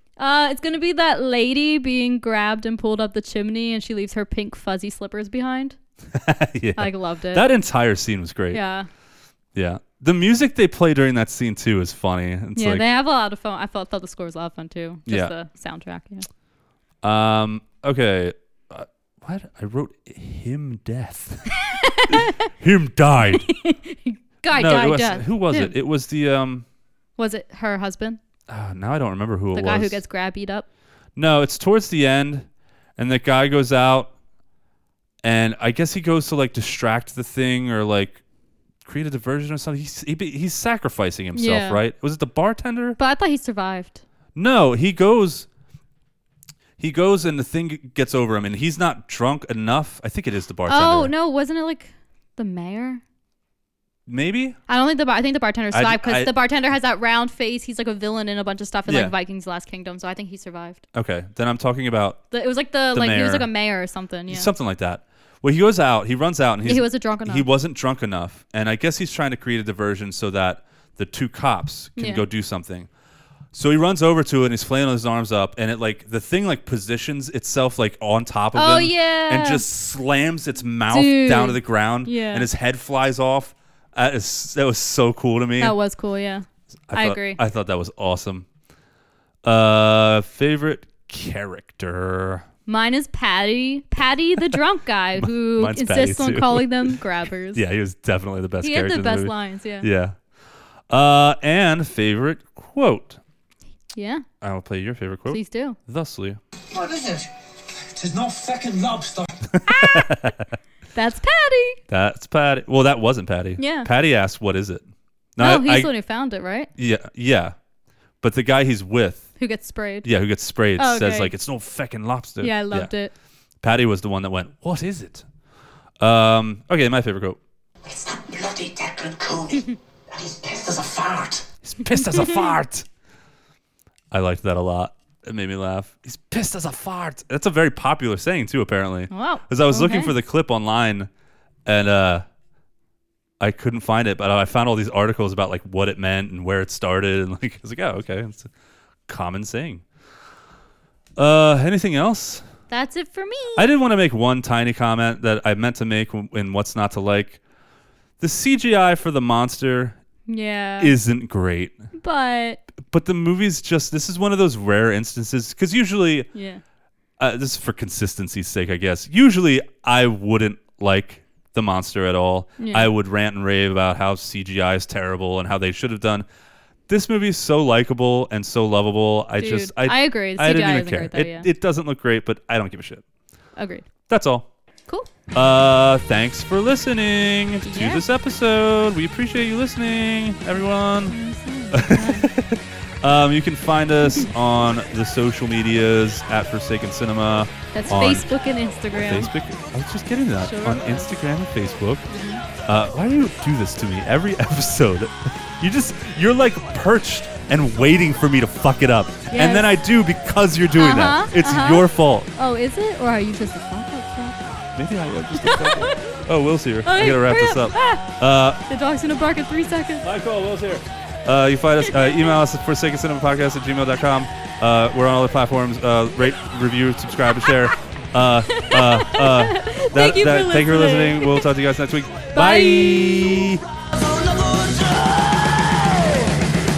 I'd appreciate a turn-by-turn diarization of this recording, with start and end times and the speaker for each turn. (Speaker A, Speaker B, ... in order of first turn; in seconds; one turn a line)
Speaker A: 0.2-5.8
Speaker B: 6.1-8.6
Speaker A: 6.8-7.5
Speaker A: 8.5-8.9
Speaker B: 9.6-12.8
Speaker A: 12.6-16.3
Speaker B: 15.1-15.3
Speaker B: 17.0-21.6
Speaker A: 21.5-22.4
Speaker B: 22.1-23.4
Speaker A: 23.3-25.7
Speaker B: 24.5-26.7
Speaker A: 27.2-28.2
Speaker B: 28.5-30.0
Speaker A: 29.5-30.7
Speaker B: 31.2-34.1
Speaker B: 35.2-38.2
Speaker B: 38.9-43.0
Speaker A: 41.3-41.8
Speaker A: 43.0-44.0
Speaker B: 44.4-45.5
Speaker B: 46.8-51.1
Speaker A: 50.7-53.0
Speaker B: 54.1-54.6
Speaker A: 54.7-60.9
Speaker B: 55.7-56.3
Speaker B: 58.9-59.1
Speaker B: 60.9-62.2
Speaker A: 62.3-64.5
Speaker B: 62.9-63.5
Speaker B: 64.3-72.9
Speaker A: 66.6-67.5
Speaker A: 72.0-72.2
Speaker B: 73.5-85.8
Speaker A: 78.5-79.7
Speaker A: 80.9-82.5
Speaker A: 85.6-87.4
Speaker B: 86.9-88.5
Speaker B: 89.4-92.5
Speaker A: 92.7-97.6
Speaker B: 95.2-97.0
Speaker B: 97.5-100.2
Speaker A: 98.6-99.9
Speaker B: 100.9-103.2
Speaker A: 103.9-104.3
Speaker B: 104.4-106.4
Speaker A: 105.3-105.8
Speaker C: 106.7-107.3
Speaker C: 108.0-109.3
Speaker B: 109.5-110.5
Speaker A: 109.7-110.2
Speaker A: 111.0-111.8
Speaker B: 111.9-115.9
Speaker A: 113.6-113.9
Speaker A: 115.4-116.7
Speaker B: 116.8-117.5
Speaker B: 118.2-119.3
Speaker A: 119.4-120.1
Speaker B: 120.0-122.9
Speaker A: 120.8-121.3
Speaker A: 122.4-123.1
Speaker B: 123.6-125.2
Speaker B: 126.0-127.4
Speaker C: 127.9-129.6
Speaker A: 129.5-129.8
Speaker C: 130.1-131.4
Speaker B: 131.6-132.9
Speaker A: 131.9-132.6
Speaker B: 134.1-141.1
Speaker A: 139.1-140.2
Speaker B: 141.7-142.2
Speaker B: 143.4-148.5
Speaker B: 149.1-149.8
Speaker B: 151.2-152.4
Speaker A: 152.7-153.7
Speaker B: 153.6-157.4
Speaker B: 158.2-160.0
Speaker A: 160.3-161.0
Speaker B: 160.8-161.8
Speaker A: 162.0-162.6
Speaker B: 162.8-166.3
Speaker A: 166.3-166.6
Speaker B: 167.2-176.3
Speaker A: 172.6-172.9
Speaker B: 176.9-183.0
Speaker A: 179.4-181.5
Speaker A: 183.6-183.9
Speaker B: 184.1-184.5
Speaker B: 185.3-191.2
Speaker A: 187.6-188.0
Speaker A: 191.1-192.3
Speaker B: 191.7-198.3
Speaker A: 194.0-194.3
Speaker A: 197.7-199.3
Speaker B: 198.9-202.1
Speaker A: 200.4-201.1
Speaker A: 202.1-202.4
Speaker B: 202.7-212.3
Speaker A: 209.3-209.7
Speaker A: 210.7-214.6
Speaker B: 214.8-218.6
Speaker A: 215.3-216.1
Speaker A: 216.8-218.1
Speaker A: 218.7-220.1
Speaker B: 220.0-233.6
Speaker A: 221.8-222.3
Speaker A: 227.5-227.7
Speaker A: 228.5-231.5
Speaker A: 232.3-233.5
Speaker C: 233.5-236.4